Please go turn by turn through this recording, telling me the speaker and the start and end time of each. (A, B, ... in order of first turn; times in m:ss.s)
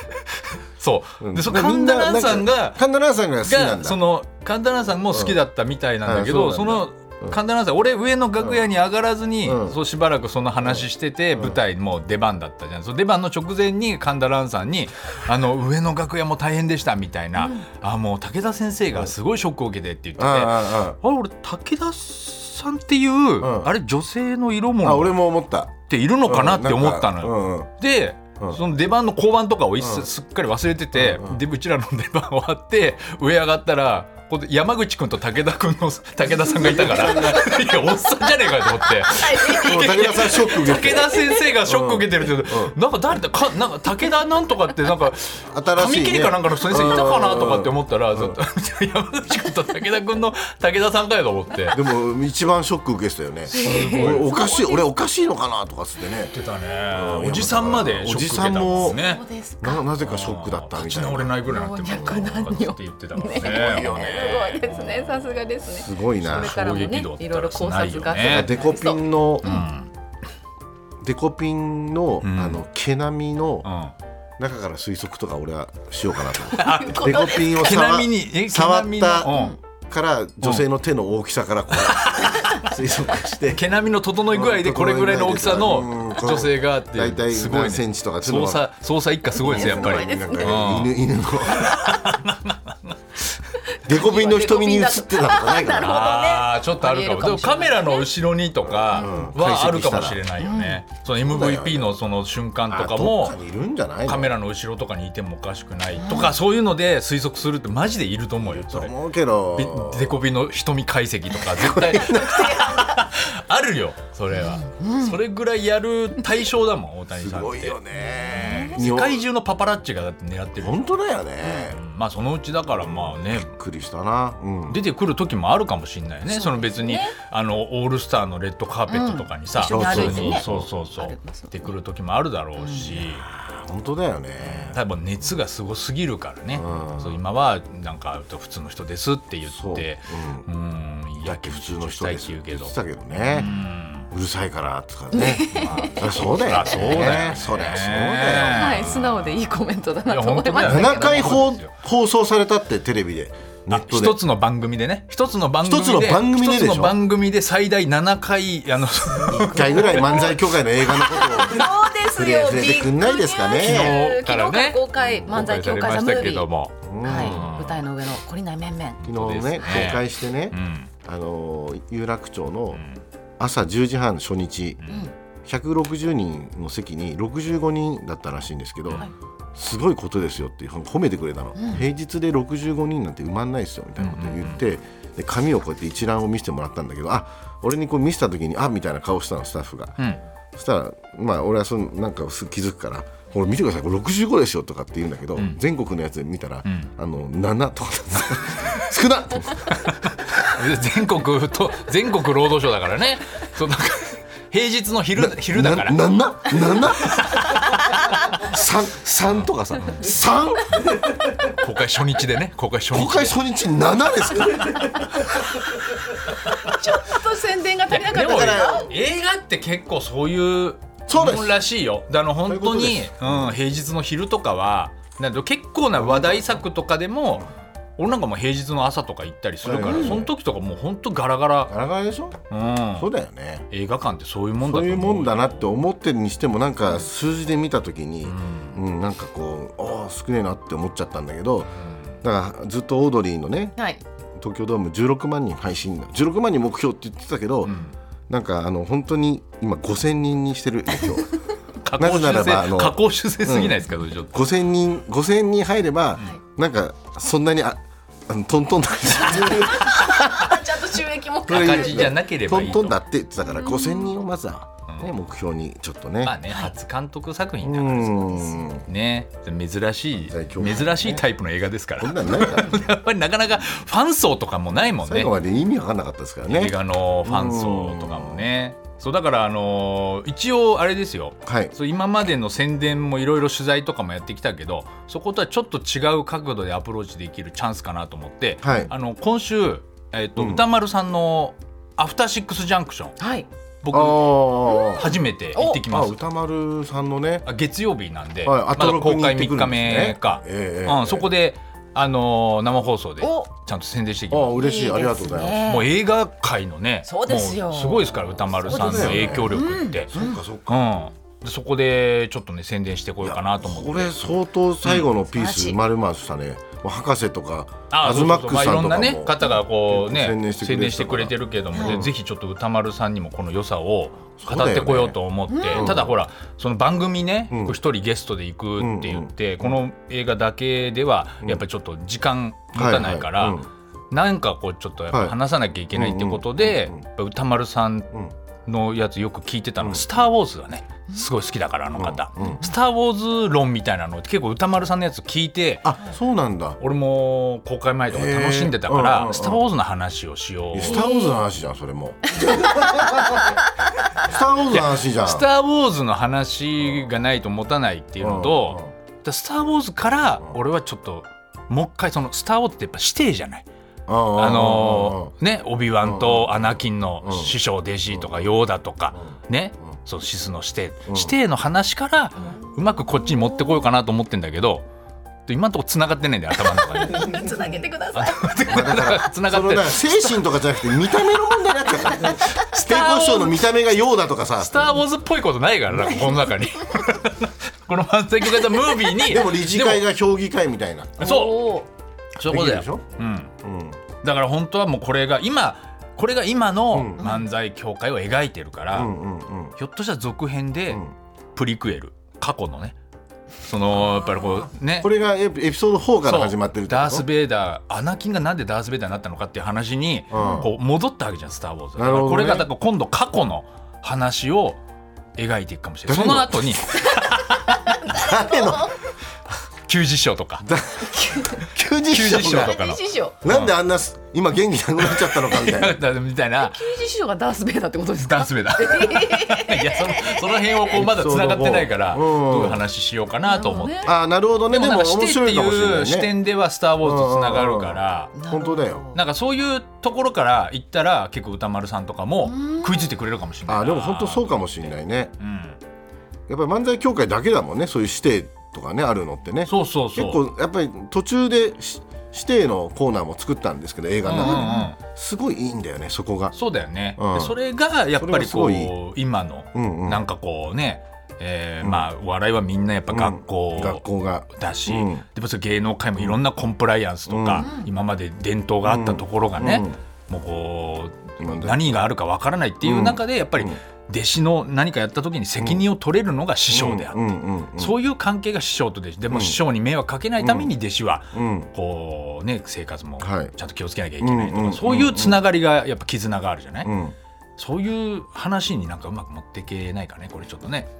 0:00.8-0:02.8 A
0:01.2-0:04.0 B
0:03.4-0:25.2 A
0:05.1-0:05.4 B
0:06.0-0:07.4 B
0:09.4-0:09.8 B
0:10.6-0:11.6 B
0:17.4-0:17.6 C
0:20.2-0:21.0 B
0:23.4-0:23.7 B
0:24.8-0:27.7 B
0:25.9-0:51.8 A
0:29.8-0:30.1 B
0:30.9-0:31.4 B
0:36.5-0:37.6 B
0:37.1-0:37.5 C
0:38.2-0:41.4 C
0:39.5-0:42.7 B
0:45.5-0:48.4 B
0:51.7-0:56.3 B
0:53.5-0:54.8 C
0:53.5-0:54.3 A
0:56.3-0:59.2 A
0:56.9-0:59.0 B
0:58.8-0:59.8 C
0:59.6-1:01.3 B
1:00.0-1:05.5 A
1:01.5-1:09.7 C
1:03.4-1:04.5 B
1:05.7-1:06.5 B
1:06.2-1:08.5 A
1:08.2-1:09.5 B
1:09.4-1:09.9 A
1:11.0-1:13.7 B
1:12.2-1:12.6 A
1:13.6-1:13.9 A
1:14.4-1:19.3 B
1:16.5-1:17.6 C
1:16.5-1:19.6 A
1:19.2-1:19.6 C
1:19.9-1:23.6 B
1:21.8-1:22.6 A
1:23.5-1:30.9 A
1:24.3-1:28.6 B
1:29.3-1:30.6 C
1:29.4-1:31.9 B
1:31.4-1:33.2 A
1:33.7-1:38.1 C
1:33.8-1:36.0 B
1:35.7-1:43.4 A
1:38.7-1:40.2 B
1:38.9-1:39.3 C
1:40.4-1:40.8 C
1:41.1-1:41.9 B
1:42.7-1:44.3 B
1:44.0-1:48.9 A
1:46.0-1:46.3 C
1:48.4-1:50.1 B
1:49.5-1:57.8 A
1:51.5-1:52.6 B
1:52.3-1:52.9 C
1:54.3-1:55.2 C
1:57.2-1:59.2 B
1:57.9-1:58.8 C
1:58.3-2:00.8 A
2:00.6-2:01.8 B
2:01.4-2:01.7 C
2:01.7-2:03.5 A
2:02.8-2:04.8 B
2:04.7-2:13.2 A
2:06.3-2:07.1 C
2:08.9-2:11.7 C
2:09.7-2:10.7 B
2:12.6-2:13.0 C
2:12.9-2:14.8 B
2:14.4-2:24.1 A
2:16.5-2:17.2 B
2:19.5-2:20.4 B
2:21.2-2:23.5 B
2:24.1-2:29.0 B
2:25.1-2:27.0 C
2:25.5-2:29.4 A
2:28.4-2:31.4 C
2:30.0-2:31.7 A
2:30.6-2:34.2 B
2:33.7-2:40.3 A
2:35.6-2:37.0 B
2:39.1-2:46.5 C
2:39.3-2:44.0 B
2:43.6-2:47.8 A
2:45.0-2:45.3 B
2:46.8-2:47.6 B
2:47.0-2:49.0 C
2:49.0-2:50.9 A
2:49.0-2:52.8 B
2:49.6-2:49.9 C
2:52.7-2:53.0 A
2:53.4-2:54.8 B
2:54.9-2:55.1 C
2:55.4-3:10.0 B
3:01.6-3:01.8 C
3:04.0-3:04.6 A
3:10.5-3:20.4 B
3:16.6-3:16.9 A
3:19.7-3:27.6 A
3:25.1-3:27.6 B
3:28.4-3:31.0 B
3:29.8-3:30.0 A
3:31.4-3:33.4 A
3:32.9-3:35.1 B
3:36.4-3:38.9 C
3:37.9-3:51.7 A
3:38.2-3:38.8 B
3:41.1-3:41.6 B
3:42.4-3:43.5 B
3:46.0-3:46.6 B
3:49.6-3:50.3 B
3:51.7-3:52.4 B
3:52.5-3:53.1 A
3:53.0-3:53.7 B
3:53.7-3:55.8 A
3:54.6-4:03.8 B
3:58.2-3:58.8 A
4:04.4-4:11.3 B
4:07.6-4:07.9 A
4:11.8-4:14.3 A
4:12.0-4:20.1 B
4:19.2-4:22.1 C
4:21.5-4:23.0 A
4:21.5-4:26.4 B
4:23.5-4:24.1 C
4:24.9-4:25.1 A
4:26.2-4:35.3 A
4:27.6-4:28.9 B
4:30.3-4:31.2 B
4:32.0-4:32.9 B
4:35.0-4:38.4 B
4:36.5-4:53.2 A
4:41.4-4:41.7 B
4:48.6-4:48.9 B
4:50.4-4:50.6 B
4:53.2-4:53.5 C
4:53.8-4:56.2 A
4:53.9-4:55.1 B
4:54.7-4:55.8 C
4:55.9-4:57.4 B
4:57.4-5:04.5 A
4:58.4-5:01.3 B
5:03.2-5:03.5 C
5:04.3-5:05.7 B
5:04.5-5:05.9 C
5:05.6-5:14.3 A
5:07.0-5:10.4 C
5:08.7-5:09.5 B
5:10.1-5:10.8 B
5:13.2-5:22.1 B
5:14.8-5:15.1 A
5:15.3-5:15.8 C
5:17.9-5:33.6 A
5:24.4-5:25.2 B
5:25.5-5:25.9 C
5:25.7-5:26.1 B
5:27.5-5:27.8 B
5:28.8-5:29.8 B
5:32.7-5:33.7 B
5:34.1-5:38.1 A
5:35.9-5:37.0 B
5:38.6-5:45.9 A
5:42.0-5:42.6 B
5:42.4-5:42.7 C
5:45.8-5:46.8 B
5:46.8-5:51.1 A
5:48.1-5:49.6 B
5:50.7-5:53.6 B
5:50.8-5:51.4 C
5:52.7-5:53.5 C
5:54.2-5:55.4 B
5:54.7-6:03.6 A
5:58.2-5:58.9 B
6:04.1-6:05.3 B
6:04.3-6:14.8 A
6:06.0-6:07.5 B
6:08.1-6:08.5 B
6:11.1-6:11.3 B
6:15.4-6:17.5 A
6:16.7-6:18.7 C
6:18.1-6:20.6 A
6:18.7-6:24.9 B
6:21.9-6:23.2 C
6:22.7-6:23.5 A
6:24.6-6:30.0 A
6:29.2-6:31.3 B
6:31.2-6:31.8 A
6:31.2-6:31.9 C
6:32.4-6:33.5 A
6:32.5-6:33.1 B
6:33.6-6:34.0 B
6:34.2-6:39.1 A
6:36.9-6:37.2 B
6:37.2-6:37.4 C
6:38.9-6:39.7 B
6:39.8-6:41.0 A
6:41.5-6:42.9 A
6:43.6-6:45.1 A
6:43.9-6:47.3 B
6:46.2-6:54.8 A
6:50.3-6:50.7 B
6:50.4-6:50.6 C
6:52.0-6:52.7 B
6:55.4-6:57.9 A
6:56.1-6:57.0 B
6:57.1-6:59.0 C
6:58.1-6:58.9 B
6:59.9-7:00.7 A
7:00.6-7:02.7 B
7:01.0-7:01.6 C
7:02.0-7:03.7 A
7:02.5-7:03.4 C
7:03.4-7:06.0 B
7:05.0-7:06.9 A
7:06.6-7:10.9 C
7:08.2-7:14.2 A
7:10.9-7:12.8 B
7:13.4-7:14.1 C
7:14.0-7:16.3 B
7:14.7-7:18.3 A
7:17.0-7:19.0 B
7:18.3-7:19.2 C
7:19.1-7:25.8 A
7:22.4-7:23.1 C
7:23.7-7:25.3 B
7:26.5-7:36.5 B
7:29.6-7:30.4 A
7:34.2-7:35.0 A
7:34.4-7:34.9 C
7:36.5-8:06.9 A
7:37.2-7:37.5 B
7:38.2-7:38.9 B
7:39.7-7:40.2 B
7:41.8-7:42.1 B
7:43.1-7:45.2 B
7:47.3-7:47.7 B
7:47.5-7:47.9 C
7:48.8-7:50.0 B
7:51.4-7:51.8 B
7:52.8-7:53.8 B
7:55.6-7:55.8 B
7:56.7-7:57.9 B
7:59.3-7:59.6 B
8:00.4-8:00.7 B
8:01.3-8:01.7 B
8:03.2-8:03.5 B
8:04.2-8:05.4 B
8:06.8-8:07.1 B
8:07.6-8:10.9 A